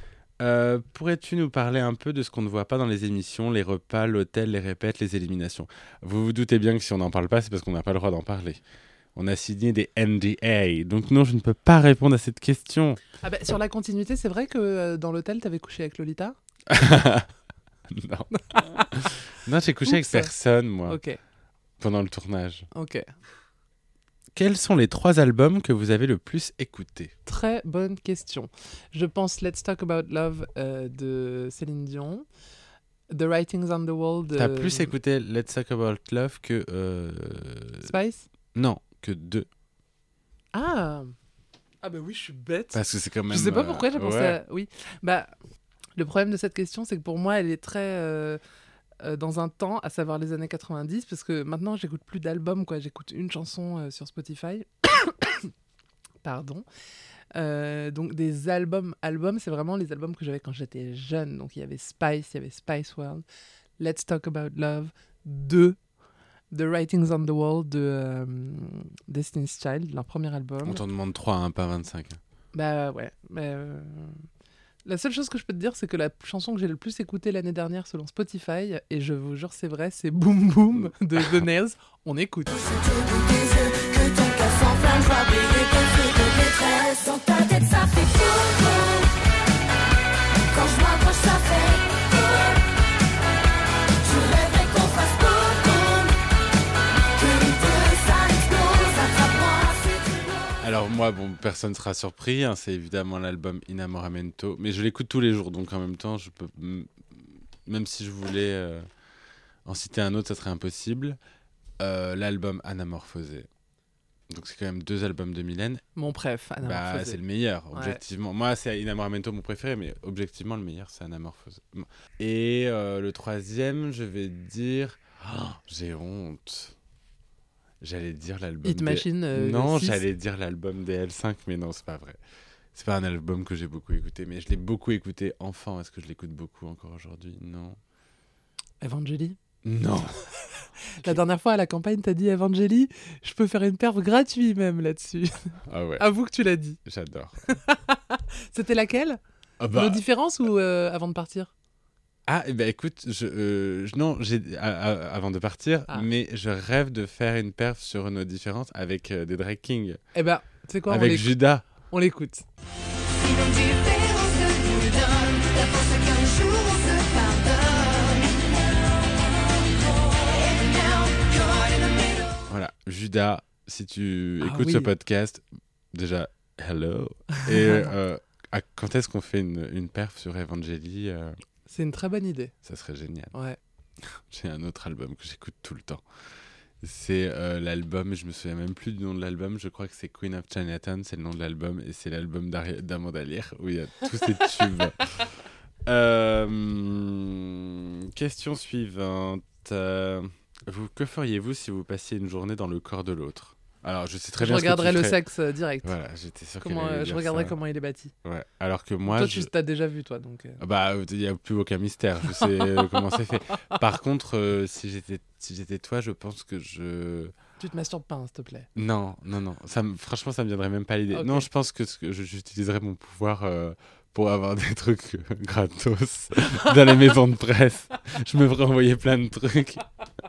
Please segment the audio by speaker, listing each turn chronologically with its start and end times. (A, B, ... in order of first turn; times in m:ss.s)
0:00.4-0:08.6 A
0:09.2-0:13.0 A
0:13.2-0:16.4 B
0:16.7-0:17.3 A
0:17.9-0:21.0 A
0:18.3-0:18.7 B
0:19.8-0:20.3 B
0:20.9-0:21.2 B
0:21.8-0:22.7 A
0:22.7-0:23.1 B
0:24.4-0:27.1 A
0:27.3-0:32.2 B
0:33.1-0:34.9 B
0:34.3-0:37.9 A
0:37.8-0:38.3 B
0:38.5-0:39.5 A
0:40.5-0:41.2 B
0:41.8-0:45.3 B
0:42.7-0:44.4 A
0:46.0-0:48.4 B
0:49.0-0:55.5 B
0:56.2-0:56.6 B
0:57.4-1:03.2 B
1:03.8-1:05.8 B
1:06.5-1:10.8 B
1:10.6-1:12.2 A
1:12.5-1:14.2 B
1:14.8-1:22.6 B
1:22.5-1:29.2 C
1:30.5-1:32.7 C
1:34.0-1:36.2 C
1:37.1-1:40.5 C
1:40.6-1:48.9 A
1:49.6-1:51.2 A
1:51.8-1:53.5 A
1:54.3-1:55.8 A
1:56.0-1:57.2 B
1:56.6-2:06.8 A
1:57.7-1:58.0 B
2:07.8-2:12.2 A
2:08.6-2:10.0 B
2:12.7-2:17.8 A
2:18.8-2:19.4 B
2:19.6-2:20.2 A
2:20.9-2:26.8 B
2:25.7-2:26.0 A
2:26.8-2:27.4 A
2:27.5-2:29.2 B
2:29.6-2:30.0 A
2:29.7-2:31.5 B
2:32.3-2:40.0 A
2:40.1-2:42.4 B
2:40.9-2:41.7 A
2:43.1-2:48.7 C
2:49.5-2:52.4 C
2:52.5-3:01.4 A
2:54.4-2:54.9 B
2:57.3-2:57.9 B
3:01.7-3:02.5 B
3:02.6-3:03.3 A
3:03.3-3:03.6 B
3:04.0-3:06.0 A
3:06.8-3:15.2 A
3:15.9-3:25.2 A
3:24.4-3:25.9 B
3:25.8-3:27.6 A
3:26.6-3:28.1 B
3:28.2-3:29.5 A
3:29.1-3:30.6 B
3:30.6-3:37.4 A
3:37.6-3:38.7 B
3:38.8-3:49.8 A
3:41.1-3:41.5 B
3:46.6-3:47.0 B